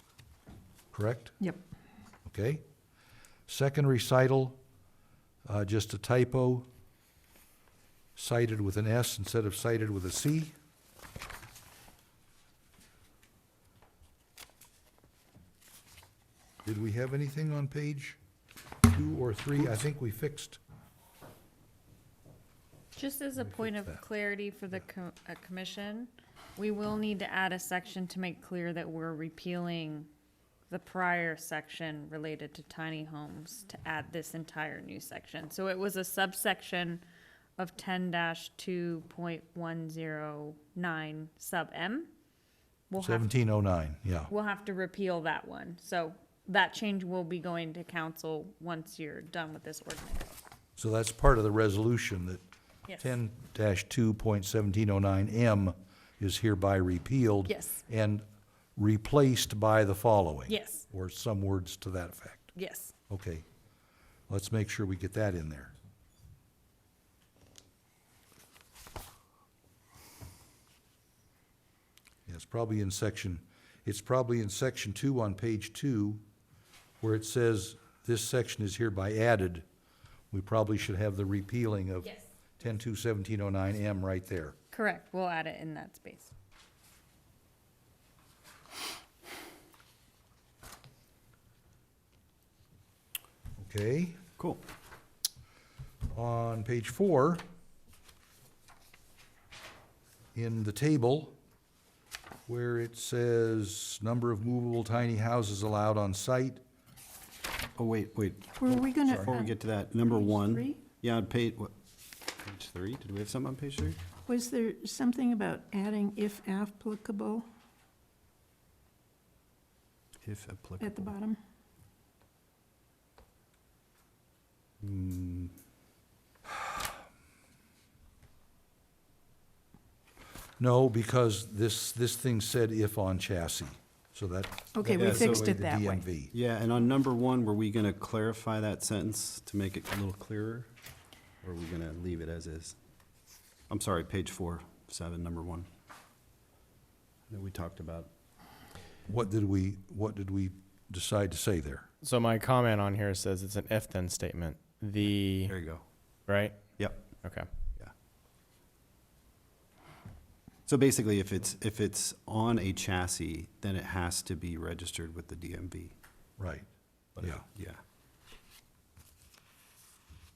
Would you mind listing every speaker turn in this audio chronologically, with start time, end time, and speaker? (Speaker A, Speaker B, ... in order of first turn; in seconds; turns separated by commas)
Speaker A: 0.9-1.4, Speaker A: 2.3-2.6, Speaker A: 3.5-4.6, Speaker A: 5.5-6.7, Speaker A: 8.2-10.5, Speaker A: 16.6-18.2, Speaker A: 18.9-20.6, Speaker B: 23.0-30.1, Speaker A: 23.4-24.0, Speaker B: 30.7-37.0, Speaker B: 37.6-42.1, Speaker B: 42.9-43.3, Speaker A: 43.0-44.3, Speaker B: 44.3-50.3, Speaker A: 50.8-52.4, Speaker B: 52.9-53.2, Speaker A: 53.0-58.2, Speaker B: 57.5-57.8, Speaker A: 58.8-62.5, Speaker B: 60.5-60.8, Speaker B: 62.5-62.9, Speaker A: 63.1-63.5, Speaker A: 64.3-65.7, Speaker A: 72.3-76.2, Speaker A: 77.0-79.7, Speaker A: 80.3-84.6, Speaker B: 84.7-86.3, Speaker A: 93.6-94.2, Speaker C: 94.4-94.6, Speaker A: 96.1-97.4, Speaker A: 100.3-101.4, Speaker A: 102.5-106.6, Speaker C: 107.8-111.7, Speaker D: 108.6-110.8, Speaker C: 112.4-114.0, Speaker D: 114.3-117.5, Speaker C: 120.2-121.1, Speaker D: 120.8-121.4, Speaker C: 124.8-125.5, Speaker A: 130.6-136.3, Speaker D: 134.8-136.1, Speaker C: 135.0-135.6, Speaker C: 136.3-140.7, Speaker C: 141.4-142.8, Speaker C: 143.7-145.7, Speaker C: 147.3-148.1, Speaker A: 149.1-151.9, Speaker E: 152.0-155.6, Speaker C: 155.5-155.8, Speaker E: 156.3-157.5, Speaker C: 156.8-157.1, Speaker C: 160.7-165.9, Speaker A: 166.4-166.7, Speaker C: 167.2-167.8, Speaker A: 167.2-167.4